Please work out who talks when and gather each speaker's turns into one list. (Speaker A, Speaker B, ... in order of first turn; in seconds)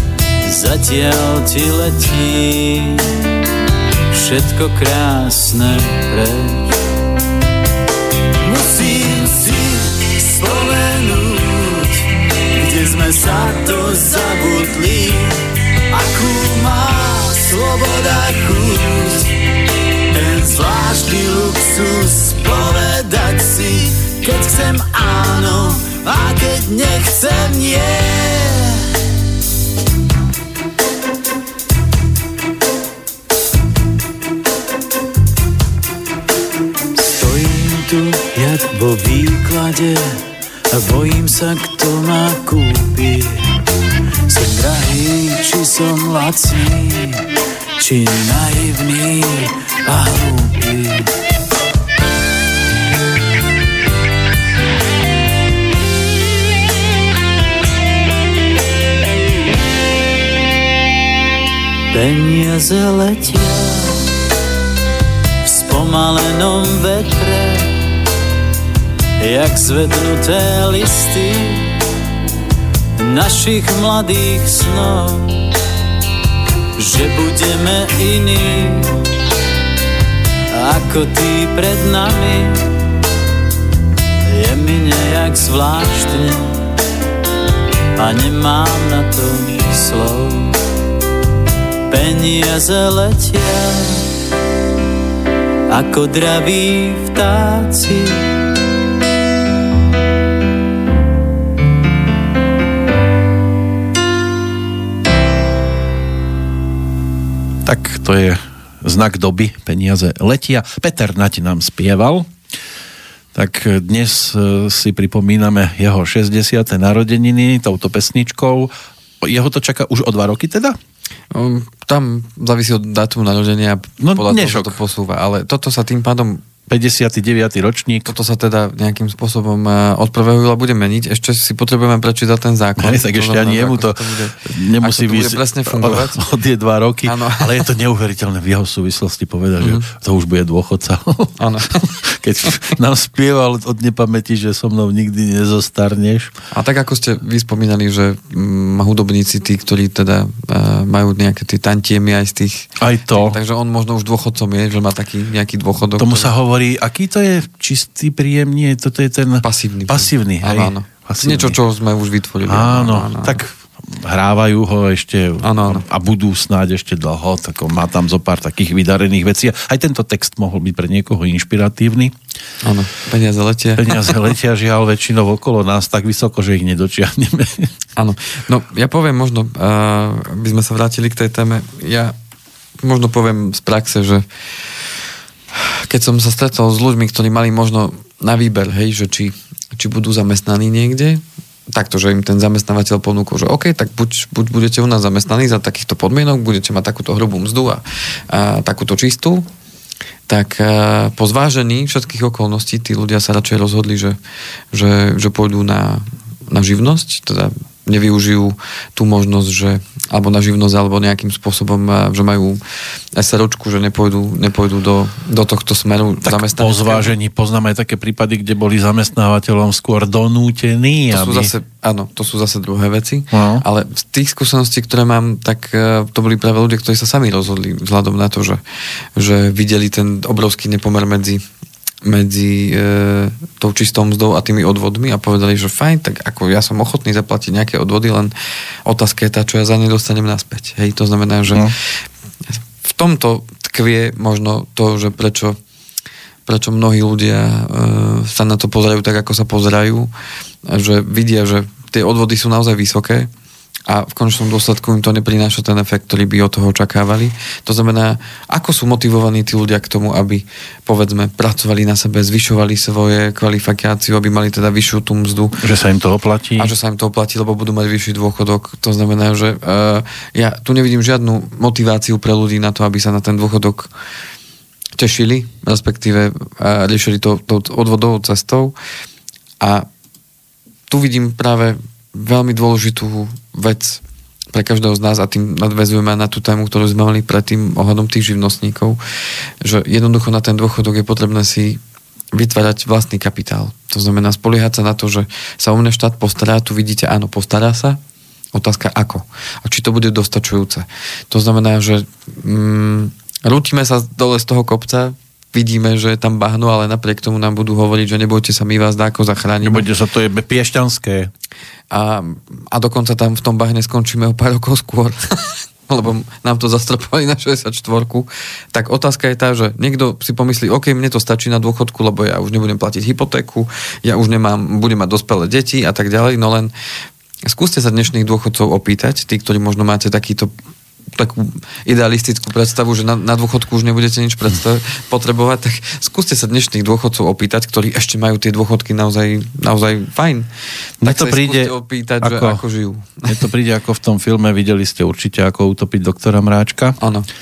Speaker A: 0.4-3.2, 4.1-6.8, 8.4-19.4, 20.1-28.9, 37.0-43.6, 44.3-51.1, 61.9-64.1, 65.5-67.8, 69.2-71.8, 73.0-75.5, 76.8-79.1, 80.5-82.8, 84.3-86.6, 88.0-90.6, 91.9-94.1, 95.7-98.3
Speaker B: 107.6-112.3, 113.3-120.8, 124.0-124.8, 126.7-128.1, 132.8-146.3, 152.8-153.4, 156.0-161.6, 162.5-172.1, 173.8-177.7, 216.2-221.5, 223.3-223.7, 265.6-266.7, 309.6-311.3, 341.0-342.6, 343.3-347.0
Speaker C: 121.3-126.4, 128.1-136.2, 137.1-137.6, 139.6-139.9, 141.4-141.9, 146.5-156.3, 159.4-163.4, 165.4-165.8, 172.6-174.2, 178.0-182.2, 182.8-184.3, 185.5-199.5, 200.3-204.2, 204.7-212.6, 213.1-217.1, 221.1-228.6, 229.2-231.4, 232.0-238.3, 238.8-241.9, 242.8-245.6, 246.5-250.1, 250.7-253.3, 253.9-265.6, 266.6-273.9, 275.0-278.8, 279.6-279.9, 280.9-284.0, 284.5-289.0, 289.6-291.8, 292.3-298.0, 298.5-309.9, 311.9-326.7, 327.5-330.5, 331.1-340.5, 341.0-343.4, 347.0-347.3